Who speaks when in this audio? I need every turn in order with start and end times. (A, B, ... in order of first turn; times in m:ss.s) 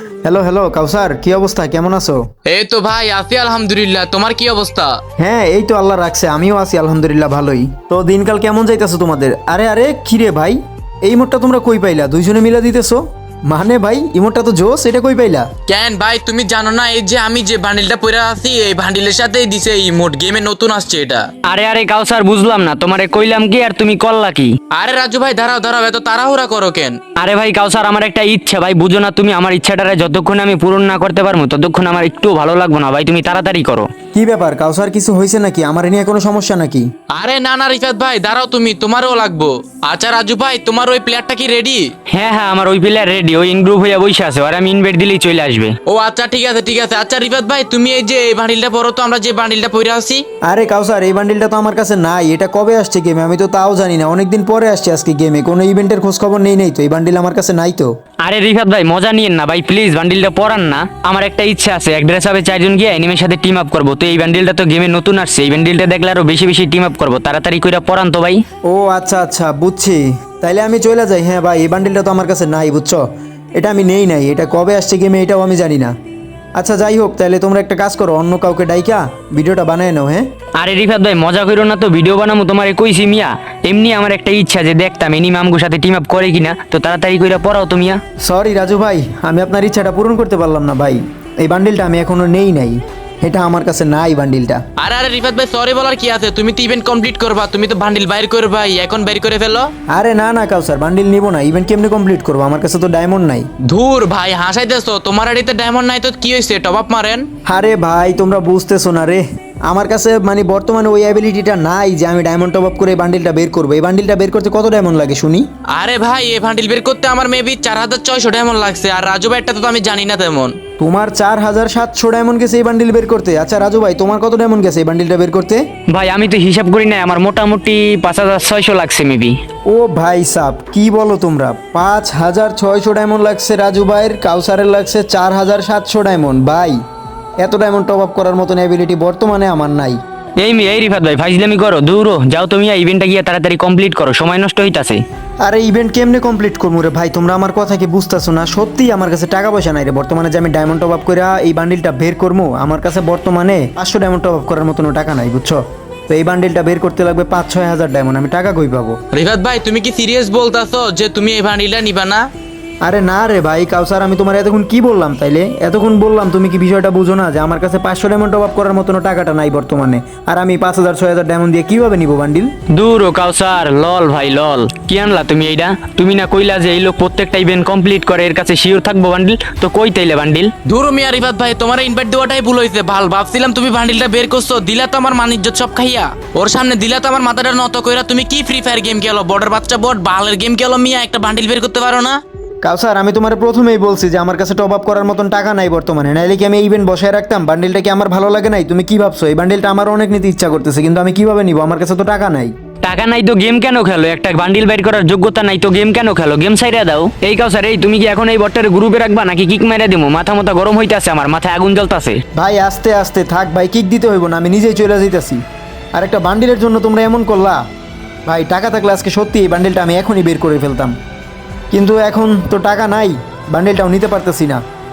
0:00.2-0:02.2 A
0:02.5-0:04.9 B
0:05.2-0:15.5 A
0:15.7-0:21.3 B
0:21.5-0:24.5 C
0:24.7-0:27.0 B
0:27.2-0:33.9 C
0:34.1-0:36.9 A
0:37.1-0:41.9 B
0:42.1-0:45.8 C
0:45.9-0:50.2 B
0:50.5-0:58.0 A
0:58.2-1:08.4 C
1:08.6-1:13.0 A
1:13.6-1:15.9 A
1:16.6-1:20.2 A
1:20.6-1:28.0 C
1:28.2-1:34.6 A
1:34.8-1:39.7 B
1:39.9-1:43.5 A
1:43.7-1:47.3 B
1:47.5-1:55.5 A
1:55.7-2:00.6 B
2:00.8-2:05.6 A
2:05.9-2:09.4 C
2:09.7-2:16.8 A
2:17.4-2:20.0 A
2:20.4-2:25.0 C
2:25.4-2:39.0 A
2:39.1-2:42.3 B
2:42.8-2:52.5 A
2:52.7-3:00.5 C
3:00.7-3:12.2 B
3:12.6-3:22.5 A
3:22.8-3:32.2 C
3:32.4-3:35.4 A
3:35.9-3:37.6 A
3:38.3-3:41.0 A
3:41.7-3:44.6 A